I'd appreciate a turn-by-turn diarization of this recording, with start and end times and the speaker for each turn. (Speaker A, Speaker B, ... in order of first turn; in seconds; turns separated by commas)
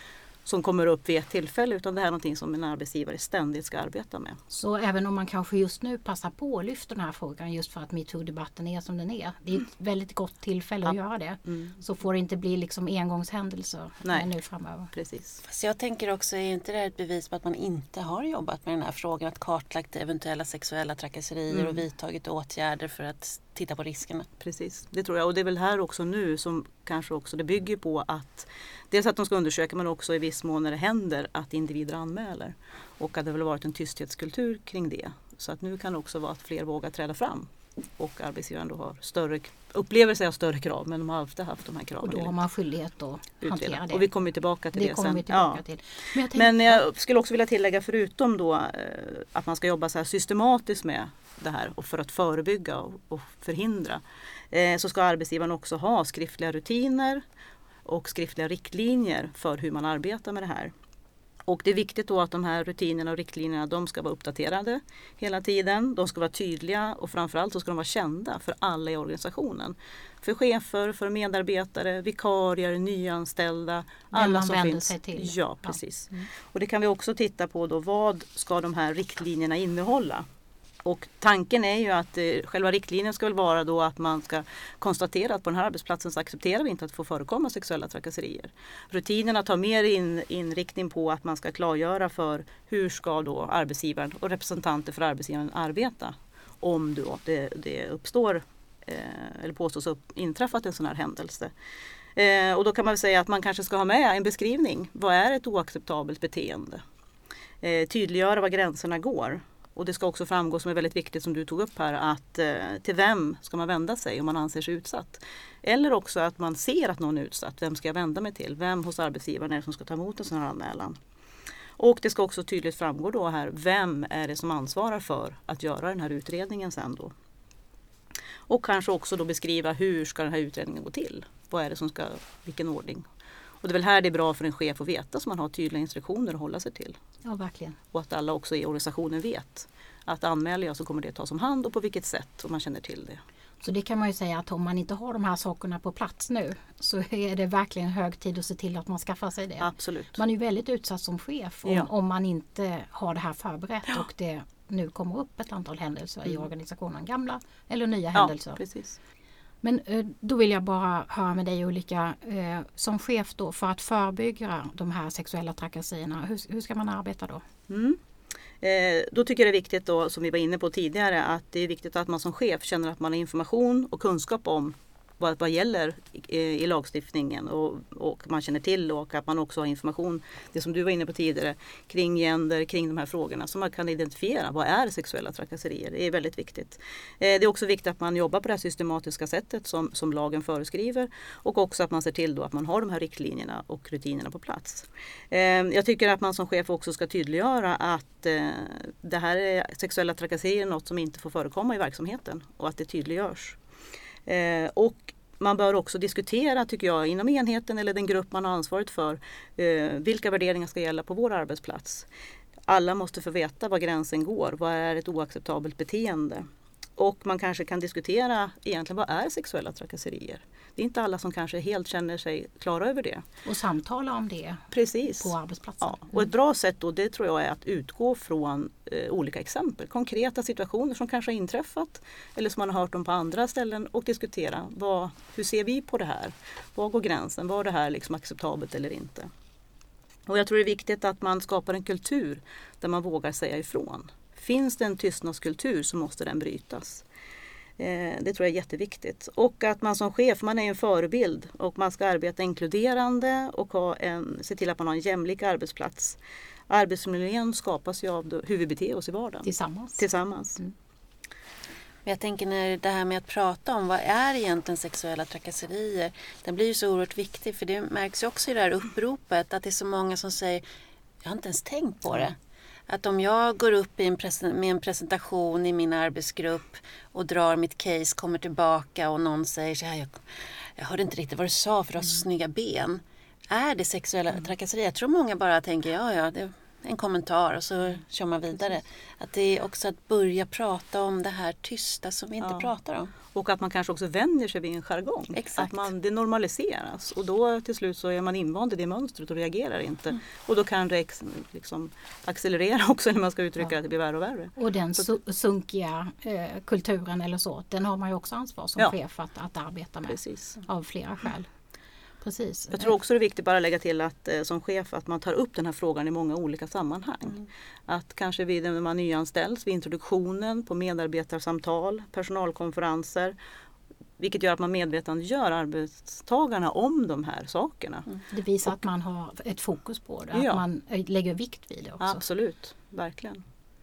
Speaker A: 0.4-4.4, Speaker B: 4.5-14.9, Speaker A: 10.8-11.8, Speaker A: 14.0-14.3, Speaker A: 14.9-15.4, Speaker C: 15.4-24.3, Speaker A: 21.5-21.8, Speaker A: 24.4-42.4, Speaker B: 42.0-44.2, Speaker A: 43.4-45.6, Speaker B: 44.7-46.8, Speaker A: 46.3-57.2, Speaker A: 57.8-60.7, Speaker A: 61.5-80.2, Speaker B: 74.1-76.2, Speaker A: 80.8-101.5, Speaker A: 102.2-106.8, Speaker A: 107.6-121.0, Speaker A: 121.8-127.1, Speaker A: 128.5-133.1, Speaker A: 133.6-137.0, Speaker B: 137.2-137.8, Speaker A: 137.9-143.2, Speaker B: 143.6-158.6, Speaker A: 149.6-150.2, Speaker A: 151.6-151.9, Speaker A: 158.1-159.0, Speaker B: 159.6-167.4, Speaker A: 167.7-168.0, Speaker A: 168.6-203.6, Speaker A: 204.2-212.1, Speaker A: 212.7-223.2, Speaker B: 223.4-226.3, Speaker A: 224.7-239.3, Speaker A: 240.3-247.0, Speaker A: 247.8-256.2, Speaker A: 256.7-260.6, Speaker B: 259.4-260.0, Speaker C: 262.1-270.6, Speaker C: 271.2-272.4, Speaker C: 272.9-280.2, Speaker C: 280.8-293.1, Speaker A: 292.4-292.7, Speaker A: 293.3-305.1, Speaker C: 295.3-295.9, Speaker B: 304.6-311.5, Speaker A: 310.1-310.6, Speaker B: 312.2-312.9, Speaker A: 312.7-323.3, Speaker A: 324.2-328.1, Speaker B: 328.3-332.2, Speaker A: 330.3-330.6, Speaker A: 332.0-333.4